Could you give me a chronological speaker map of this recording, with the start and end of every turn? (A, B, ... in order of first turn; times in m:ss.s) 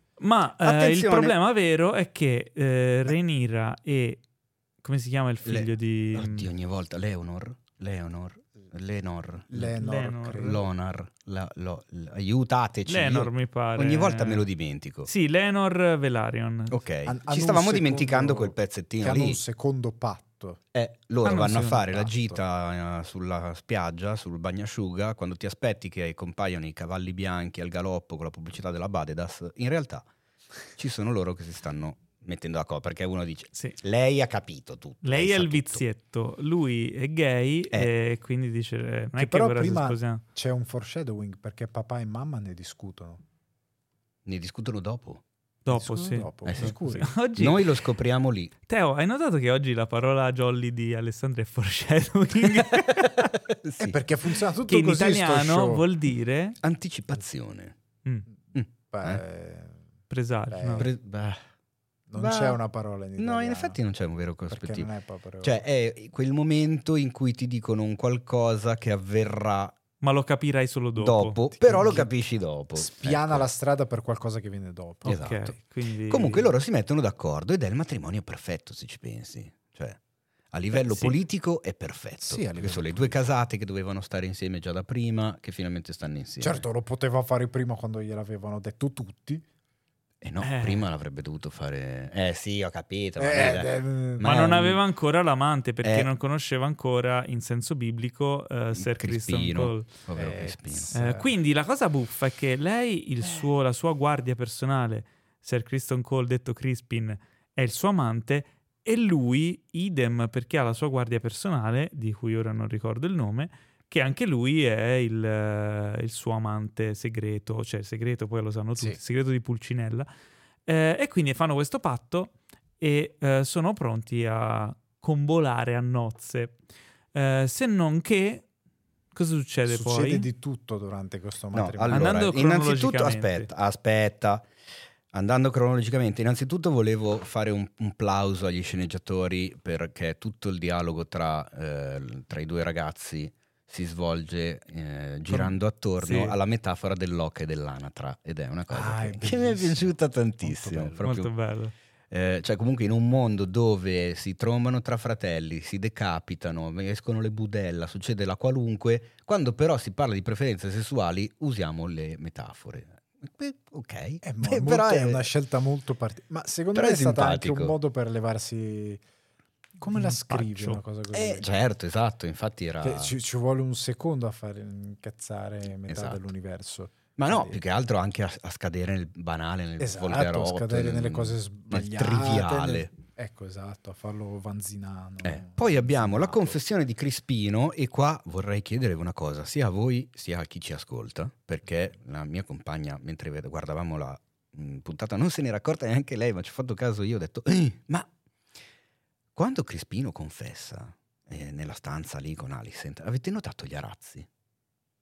0:00.2-0:04.2 A
0:00.6-0:01.3 B
0:04.8-0:06.5 A
0:05.4-0:09.8 B
0:09.5-0:10.7 C
0:09.8-0:10.6 A
0:10.4-0:15.1 B
0:12.9-0:14.4 A
0:15.0-0:16.8 A
0:16.7-0:19.4 B
0:17.0-0:20.6 C
0:20.7-0:30.0 B
0:21.2-0:21.8 A
0:21.9-0:22.4 C
0:30.7-0:35.8 B
0:35.0-0:40.2 A
0:39.2-0:43.2 C
0:44.2-0:45.2 B
0:45.6-0:47.7 A
0:45.7-0:47.1 C
0:46.4-0:46.8 B
0:47.4-0:48.5 B
0:48.7-0:53.3 A
0:52.7-0:54.0 B
0:53.8-0:55.8 C
0:54.6-0:56.6 A
0:56.6-0:57.7 B
0:58.5-0:59.2 B
0:58.7-0:59.8 C
1:00.1-1:00.9 A
1:00.5-1:00.9 C
1:00.8-1:01.4 B
1:02.1-1:03.8 C
1:02.1-1:02.6 B
1:03.2-1:04.9 B
1:04.5-1:05.6 C
1:05.4-1:09.7 B
1:10.0-1:11.4 A
1:11.0-1:13.5 B
1:11.6-1:12.1 C
1:12.7-1:15.2 C
1:15.0-1:16.5 A
1:15.0-1:15.6 B
1:16.1-1:20.0 B
1:20.5-1:26.6 B
1:20.7-1:21.2 A
1:22.2-1:23.2 C
1:26.4-1:29.4 C
1:30.2-1:34.8 B
1:30.4-1:30.8 A
1:33.2-1:34.3 C
1:34.2-1:39.9 A
1:35.8-1:36.1 B
1:38.7-1:40.9 B
1:40.1-1:41.3 C
1:40.9-2:00.1 A
2:00.6-2:06.6 A
2:07.1-2:08.4 A
2:09.1-2:10.3 A
2:09.7-2:12.2 C
2:11.5-2:14.5 B
2:11.9-2:13.5 A
2:15.1-2:31.3 B
2:25.3-2:26.4 A
2:28.7-2:31.0 C
2:31.0-2:31.7 A
2:32.1-2:45.3 B
2:44.2-2:49.0 C
2:46.7-2:47.7 B
2:49.8-2:51.5 C
2:49.8-2:50.8 A
2:51.1-2:53.1 B
2:52.8-2:57.6 C
2:55.9-2:56.2 B
2:57.2-3:02.9 B
2:59.8-3:06.6 C
3:05.2-3:18.1 B
3:19.4-3:24.3 B